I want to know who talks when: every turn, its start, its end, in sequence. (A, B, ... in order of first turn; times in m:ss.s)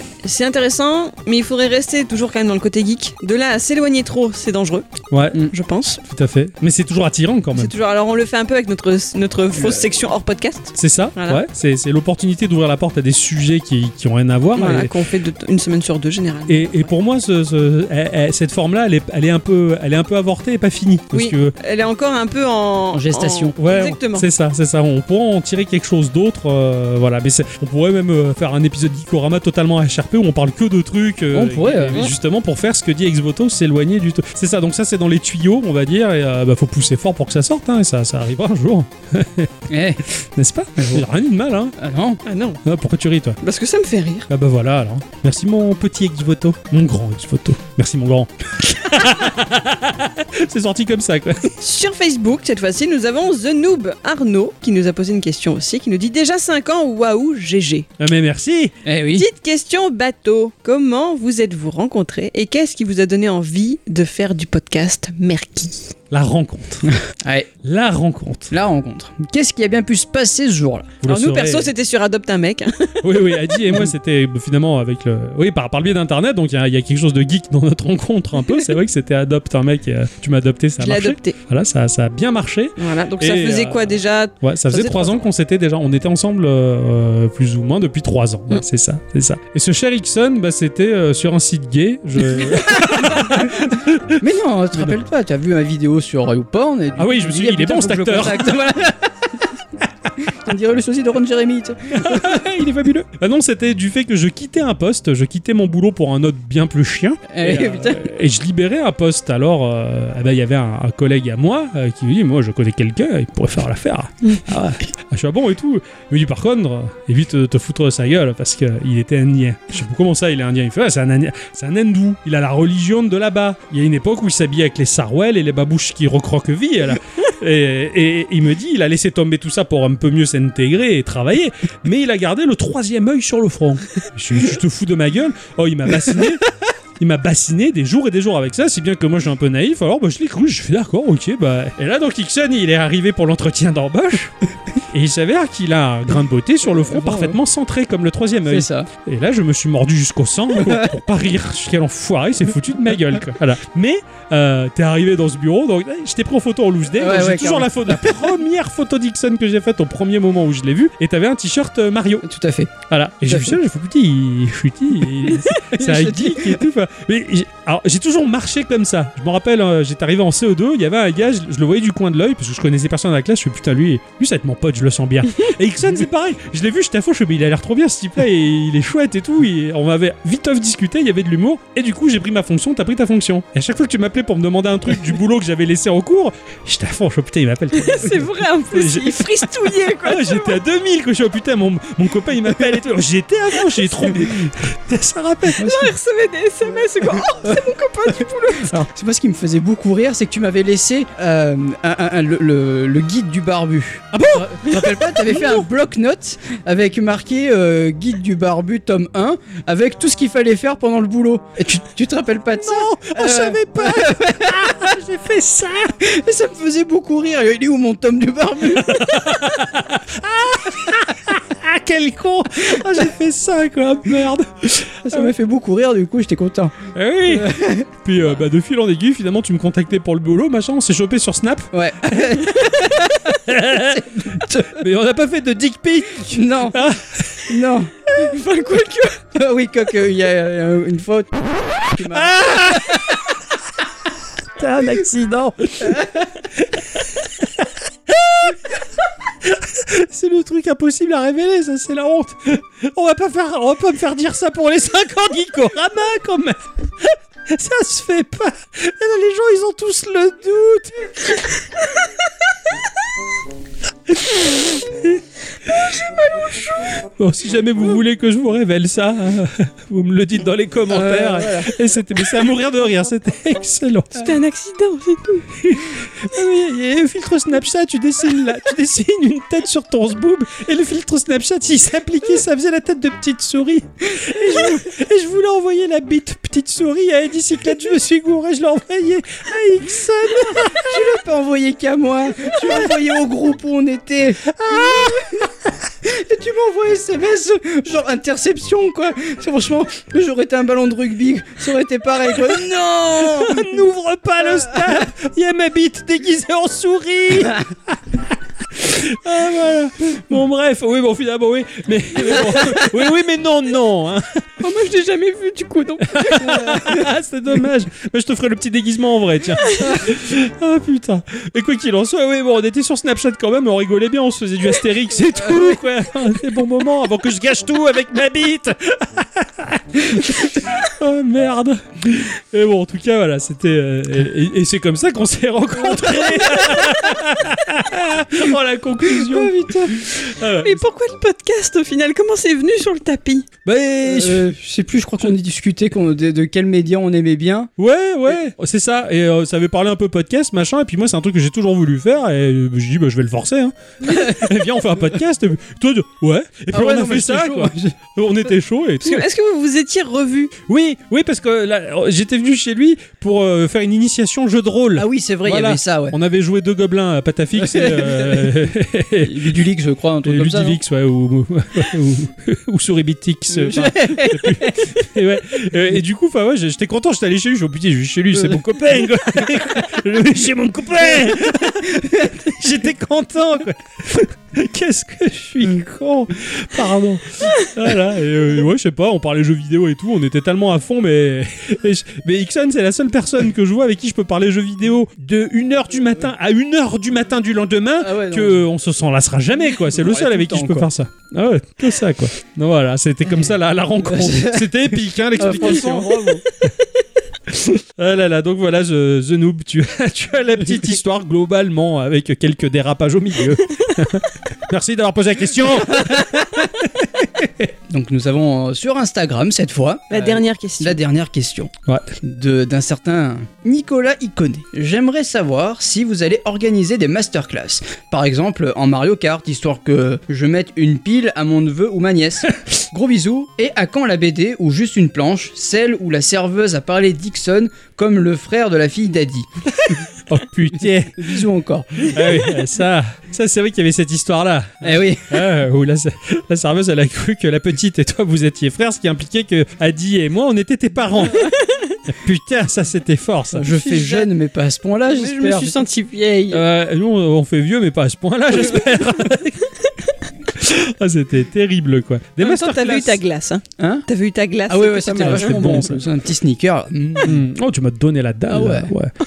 0:00.2-0:06.0 A
0:05.1-0:05.4 B
0:06.0-0:07.7 B
0:07.5-0:11.4 A
0:09.6-0:09.8 C
0:10.8-0:14.9 B
0:14.6-0:16.9 A
0:16.5-0:21.5 B
0:21.1-0:24.3 A
0:22.9-0:23.5 C
0:23.6-0:41.8 B
0:31.3-0:32.1 C
0:39.7-0:40.0 C
0:40.8-0:41.0 C
0:41.8-0:42.2 C
0:42.2-0:42.6 A
0:42.6-0:43.4 B
0:43.4-0:44.3 A
0:44.3-0:51.5 B
0:51.6-0:57.9 A
0:58.0-0:58.7 B
0:58.8-0:59.2 C
0:59.1-1:05.9 A
1:06.1-1:06.9 B
1:06.8-1:07.5 C
1:07.6-1:08.5 B
1:08.5-1:10.9 C
1:11.0-1:11.7 B
1:11.1-1:13.6 A
1:13.0-1:34.2 B
1:20.8-1:21.4 A
1:22.8-1:25.2 A
1:33.3-1:33.6 C
1:34.2-1:39.3 C
1:37.0-1:38.6 B
1:40.2-1:42.4 C
1:41.9-2:16.5 B
1:47.3-1:48.1 C
2:17.0-2:42.2 B
2:26.7-2:27.4 C
2:28.4-2:28.9 C
2:30.6-2:30.9 C
2:37.0-2:38.1 C
2:42.2-2:42.7 C
2:42.8-3:15.7 B
2:43.2-2:43.6 C
2:45.6-2:46.6 C
3:07.8-3:10.6 A
3:15.6-3:15.9 C
3:15.6-3:18.7 A
3:18.7-3:34.9 C
3:24.1-3:25.6 B
3:32.5-3:36.0 B
3:36.0-3:39.4 C
3:38.6-3:45.3 B
3:45.0-3:47.9 C
3:46.9-3:57.5 B
3:51.7-3:53.4 C
3:53.9-3:54.8 C
3:56.3-3:57.9 C
3:58.2-3:59.2 A
3:59.3-4:03.2 C
4:02.1-4:03.3 B
4:04.6-4:08.8 B
4:09.4-4:21.1 B
4:24.1-4:25.2 B
4:26.2-4:26.5 A
4:27.0-4:34.3 B
4:30.9-4:31.7 C
4:34.1-4:35.5 A
4:35.6-4:51.1 B
4:50.6-4:55.5 C
4:52.5-4:52.9 B
4:54.5-4:55.5 B
4:56.0-5:03.8 C
5:02.3-5:14.4 B
5:14.6-5:17.0 A
5:16.0-5:40.8 B
5:19.6-5:19.9 A
5:36.2-5:36.9 C
5:39.0-5:40.0 C
5:40.6-5:43.5 A
5:43.6-5:44.5 B
5:44.0-5:47.7 C
5:47.8-5:59.3 B
5:54.0-5:54.4 C
5:56.7-5:57.9 C
5:59.0-6:00.5 A
6:00.6-6:09.6 B
6:05.0-6:06.2 C
6:07.6-6:08.6 C
6:09.2-6:10.8 C
6:10.2-6:46.3 B
6:13.5-6:14.9 C
6:38.0-6:38.6 C
6:39.8-6:40.9 C
6:44.0-6:44.8 C
6:45.4-6:46.4 C
6:47.5-6:57.7 B
6:56.1-6:56.4 C
6:57.9-7:01.7 C
7:00.1-7:01.0 A
7:01.9-7:02.1 B
7:02.2-7:19.5 C
7:19.8-7:31.5 B
7:20.7-7:22.3 C
7:24.8-7:25.4 C
7:31.4-7:32.0 A
7:32.1-7:33.7 B
7:33.5-7:35.8 C
7:33.8-7:34.3 A
7:35.1-7:36.6 A
7:36.5-7:39.8 B
7:40.5-7:43.2 B
7:42.4-7:45.9 A
7:43.8-7:44.0 C
7:44.7-7:47.4 C
7:45.2-7:46.0 B
7:47.2-7:49.1 B
7:48.5-7:48.9 C